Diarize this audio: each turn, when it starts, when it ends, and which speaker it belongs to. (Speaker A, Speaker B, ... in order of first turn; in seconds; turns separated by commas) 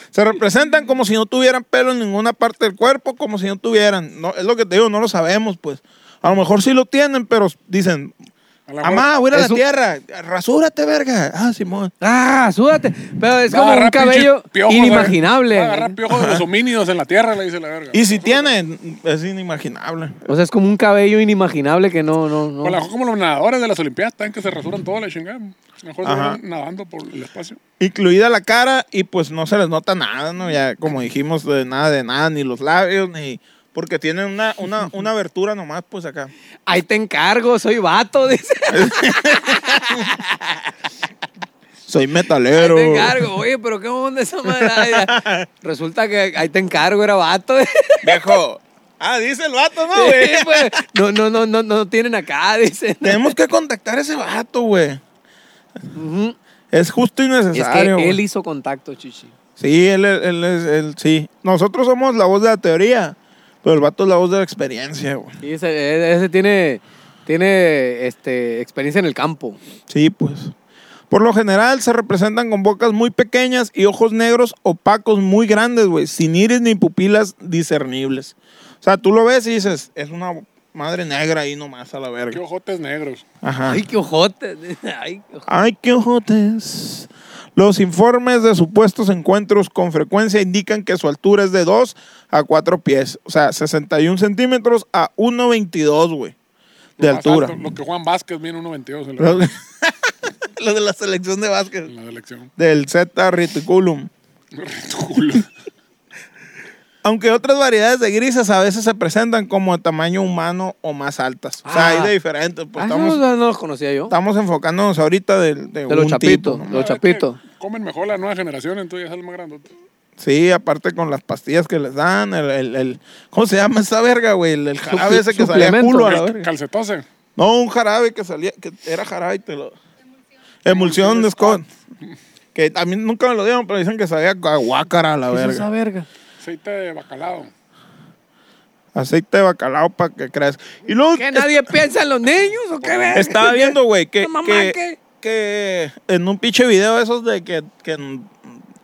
Speaker A: 0.1-8.1, Speaker B: 8.7-9.1, Speaker A: 8.8-11.9, Speaker C: 9.3-9.6, Speaker C: 12.0-16.0, Speaker B: 13.5-18.5, Speaker A: 16.1-16.4, Speaker A: 17.9-20.3, Speaker C: 20.3-22.8, Speaker B: 22.6-27.6, Speaker A: 26.0-26.4, Speaker A: 27.8-36.3, Speaker C: 36.7-40.6, Speaker A: 38.7-40.1, Speaker A: 41.9-43.3, Speaker C: 42.5-48.4, Speaker A: 44.5-45.5, Speaker A: 48.0-50.8, Speaker C: 49.9-53.3, Speaker A: 53.0-55.0, Speaker C: 55.9-56.4, Speaker A: 56.7-58.2, Speaker C: 57.5-59.3, Speaker A: 59.6-65.3, Speaker C: 65.4-69.6, Speaker A: 69.9-70.5, Speaker A: 71.1-82.4, Speaker B: 82.3-83.2, Speaker A: 83.4-83.8, Speaker C: 83.7-85.5, Speaker A: 85.5-96.3, Speaker A: 97.0-97.6, Speaker B: 97.0-99.4, Speaker A: 99.2-101.9, Speaker B: 101.9-102.5, Speaker A: 102.6-104.1, Speaker B: 104.5-105.5, Speaker A: 107.0-113.2, Speaker C: 111.6-112.1, Speaker C: 112.8-114.1, Speaker A: 114.1-116.8, Speaker C: 115.9-117.4, Speaker B: 116.7-119.7, Speaker A: 120.2-126.5, Speaker C: 124.9-126.2, Speaker B: 126.0-127.0, Speaker A: 127.3-129.8, Speaker A: 130.6-131.7, Speaker B: 130.7-131.6, Speaker A: 132.5-135.7, Speaker C: 135.3-136.1, Speaker B: 136.4-137.5, Speaker A: 138.9-141.7, Speaker C: 141.2-145.0, Speaker B: 142.8-143.1, Speaker A: 143.1-148.6